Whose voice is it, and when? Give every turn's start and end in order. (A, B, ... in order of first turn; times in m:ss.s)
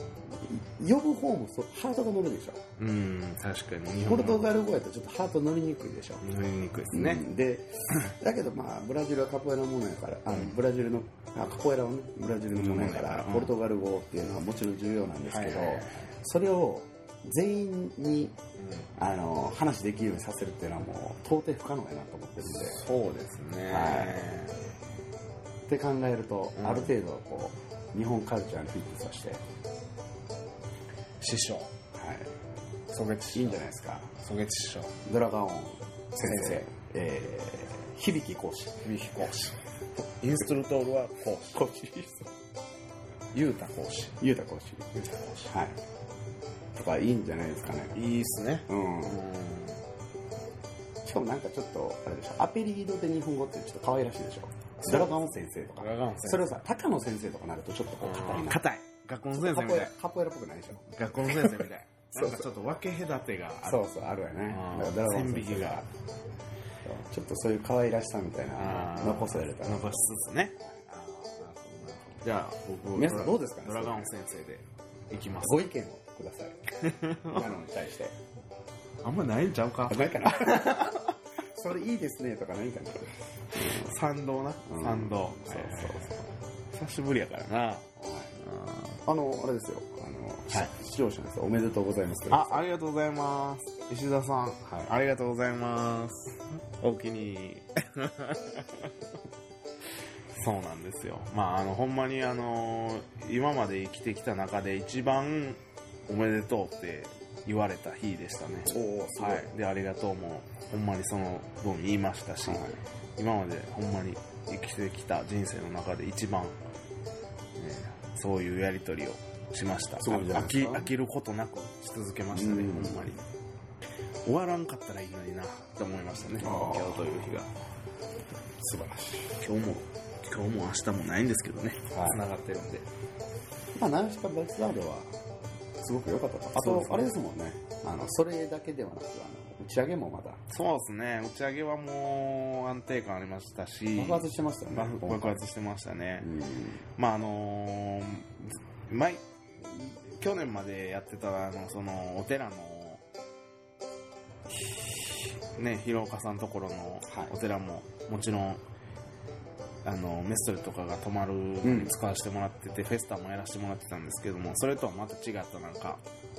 0:00.3-0:02.6 A
0:02.8-0:04.5 B
0:04.1-0:06.2 A
0:06.2-0:07.2 B
0:06.9-0:18.4 A
0:12.6-0:13.5 B
0:15.3-0:16.1 B
0:18.6-0:18.9 B
0:19.0-0:22.9 A
0:22.4-0:24.6 B
0:23.7-0:24.3 A
0:25.7-0:29.4 A
0:26.6-0:26.9 B
0:31.2-0:31.7 B
0:31.9-0:32.3 A
0:32.9-0:33.6 B
0:33.3-0:34.1 A
0:34.2-0:35.0 B
0:35.0-0:38.9 A
0:36.2-0:36.7 B
0:38.8-0:41.7 B
0:41.5-0:42.3 A
0:43.3-0:44.2 B
0:44.2-0:44.9 A
0:44.9-0:45.6 B
0:45.5-0:45.8 A
0:46.7-0:48.0 A
0:47.9-0:49.8 B
0:48.7-0:49.2 A
0:51.0-0:58.6 A
0:54.8-0:55.2 B
0:55.8-0:56.6 B
0:58.0-0:59.9 B
0:59.3-1:01.6 A
1:00.9-1:03.8 B
1:02.2-1:02.5 A
1:03.6-1:05.9 A
1:04.5-1:05.8 B
1:06.8-1:10.2 A
1:08.6-1:15.6 B
1:12.9-1:14.1 A
1:15.4-1:16.6 A
1:16.8-1:17.5 B
1:17.3-1:18.2 A
1:19.0-1:21.2 B
1:19.9-1:23.9 A
1:23.6-1:29.0 B
1:24.6-1:26.2 A
1:28.0-1:28.4 A
1:29.1-1:32.7 A
1:32.3-1:38.9 B
1:34.6-1:34.9 A
1:40.3-1:56.6 B
1:48.7-1:49.5 A
1:52.4-1:52.8 A
1:57.6-2:03.2 B
2:00.0-2:00.9 A
2:02.3-2:03.1 A
2:04.3-2:07.5 B
2:06.4-2:07.3 A
2:08.6-2:09.4 A
2:09.4-2:12.9 B
2:11.9-2:12.2 A
2:13.7-2:15.2 A
2:15.8-2:20.4 A
2:16.5-2:17.2 B
2:20.5-2:26.3 B
2:24.0-2:25.3 A
2:26.2-2:26.8 A
2:27.0-2:33.0 B
2:34.6-2:35.1 A
2:35.6-2:38.6 B
2:39.8-2:46.0 B
2:41.6-2:42.0 A